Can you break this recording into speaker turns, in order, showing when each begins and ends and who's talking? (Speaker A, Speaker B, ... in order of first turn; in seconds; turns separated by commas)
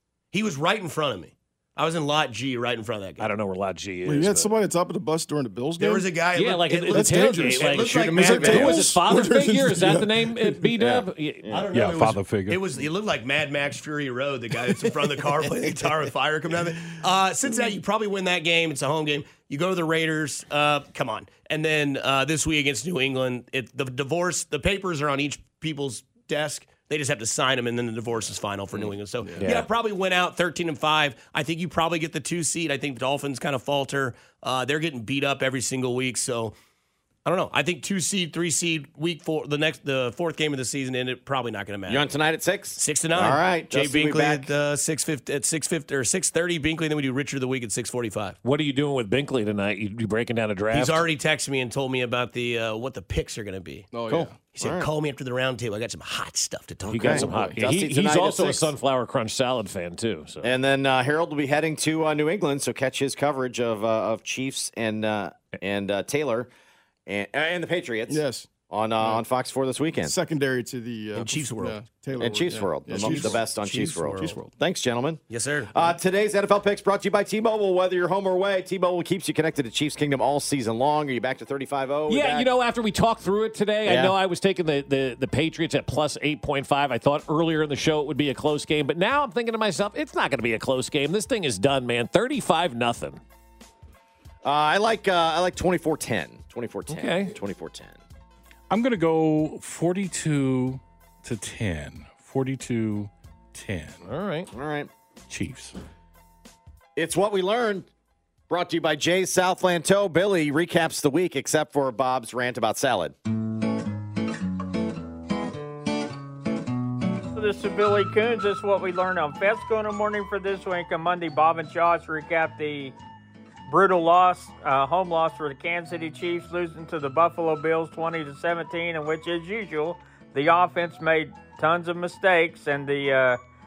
Speaker A: 0.3-3.3, Speaker B: 3.2-4.5, Speaker C: 4.0-6.1, Speaker A: 5.8-8.9, Speaker B: 6.3-11.5, Speaker C: 6.9-10.7, Speaker D: 10.8-11.7, Speaker A: 11.5-36.5, Speaker E: 11.7-12.7, Speaker C: 29.2-29.5, Speaker B: 29.4-29.7, Speaker A: 37.2-42.1, Speaker D: 41.9-44.5, Speaker A: 42.8-48.4, Speaker B: 48.4-51.0, Speaker A: 50.7-57.3, Speaker C: 53.9-54.5, Speaker D: 54.1-54.9, Speaker B: 56.9-60.5, Speaker D: 57.0-58.7, Speaker C: 57.0-57.6, Speaker D: 60.4-66.5, Speaker D: 67.0-70.2, Speaker C: 68.1-69.2, Speaker C: 70.0-73.5, Speaker A: 71.1-71.8, Speaker D: 72.2-82.5, Speaker A: 72.9-74.4, Speaker C: 74.2-74.5, Speaker A: 75.3-75.7, Speaker B: 82.1-93.2, Speaker D: 83.8-84.1, Speaker D: 94.4-98.0, Speaker B: 96.9-97.3, Speaker E: 98.7-104.0, Speaker B: 104.0-104.5, Speaker D: 104.5-104.9, Speaker E: 105.3-105.7, Speaker D: 107.0-107.9, Speaker D: 108.5-113.1, Speaker F: 117.3-122.9, Speaker F: 123.7-133.4